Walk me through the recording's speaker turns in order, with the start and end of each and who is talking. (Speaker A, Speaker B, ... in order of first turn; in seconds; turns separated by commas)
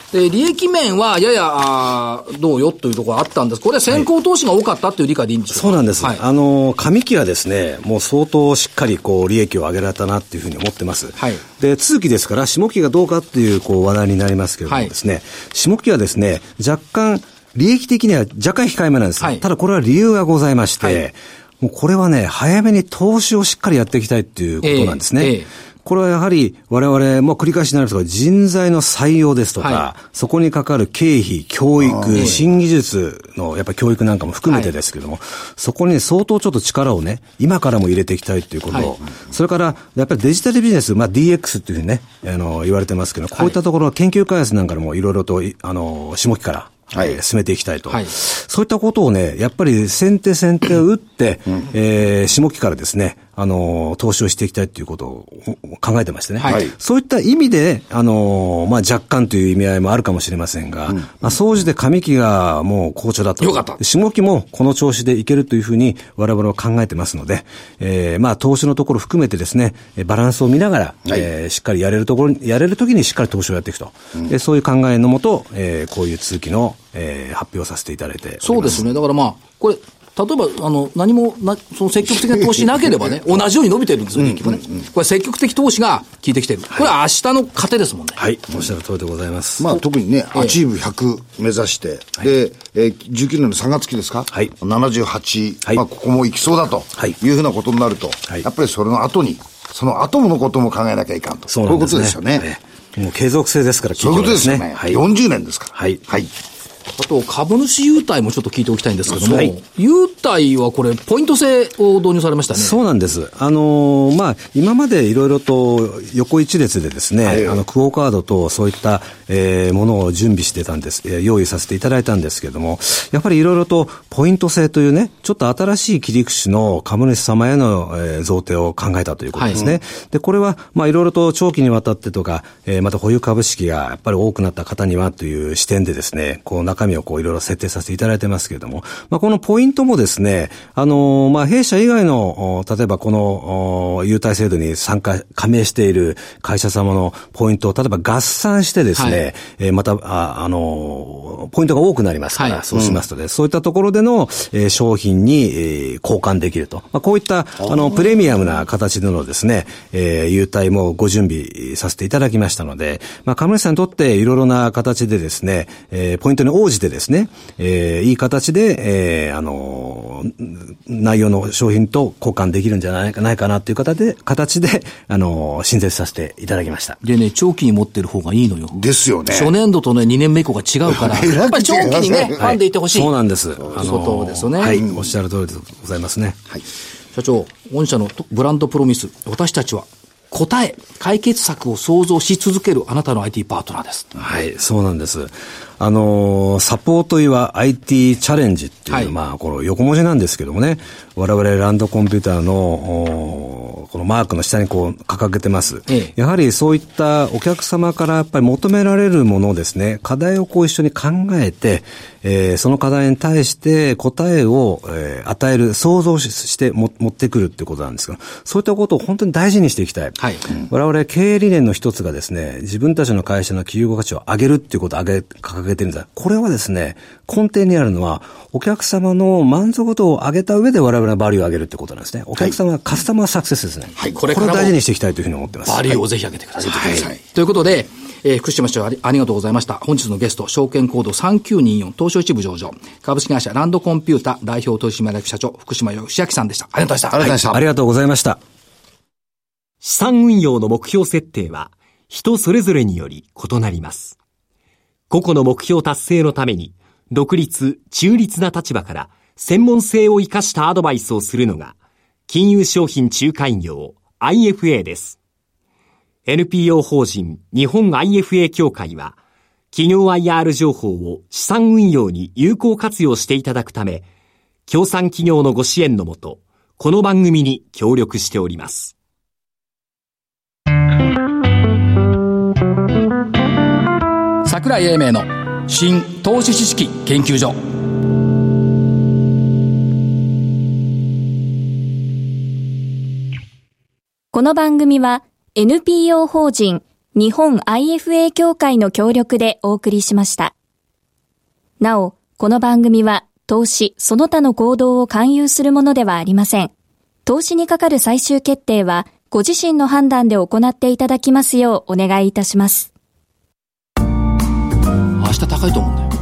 Speaker A: 0.1-6.2, Speaker B: 5.5-78.8, Speaker A: 11.2-11.4, Speaker A: 14.7-14.9, Speaker A: 24.6-25.5, Speaker A: 29.6-29.9, Speaker A: 32.1-32.4, Speaker A: 34.5-34.7, Speaker C: 46.9-47.2, Speaker A: 47.9-48.1, Speaker A: 56.4-56.6, Speaker C: 56.5-56.7, Speaker A: 63.4-63.8, Speaker A: 78.4-88.2, Speaker B: 88.2-89.8, Speaker C: 89.6-102.5, Speaker B: 101.5-105.0, Speaker C: 104.0-106.3, Speaker B: 105.8-106.0, Speaker A: 106.9-112.8, Speaker B: 109.2-109.5, Speaker B: 112.5-177.0, Speaker C: 117.2-117.6, Speaker A: 129.4-129.6, Speaker A: 149.0-149.2, Speaker A: 152.3-152.6, Speaker C: 152.8-153.0, Speaker A: 177.0-183.1, Speaker C: 178.7-179.5, Speaker C: 180.9-182.4, Speaker B: 182.4-186.4, Speaker A: 183.8-184.8, Speaker A: 187.1-194.1, Speaker B: 194.2-236.0, Speaker A: 198.9-199.1, Speaker A: 220.2-220.5, Speaker A: 234.1-234.8, Speaker A: 235.7-247.4, Speaker B: 236.7-237.1, Speaker C: 247.1-247.6, Speaker B: 247.4-248.4, Speaker D: 249.8-254.2, Speaker D: 255.1-261.7, Speaker D: 262.3-265.2, Speaker D: 266.3-269.2, Speaker D: 269.7-274.1, Speaker D: 274.7-278.9, Speaker A: 284.4-287.6, Speaker E: 294.3-300.5, Speaker E: 301.8-306.7, Speaker E: 307.3-312.9, Speaker A: 315.2-316.1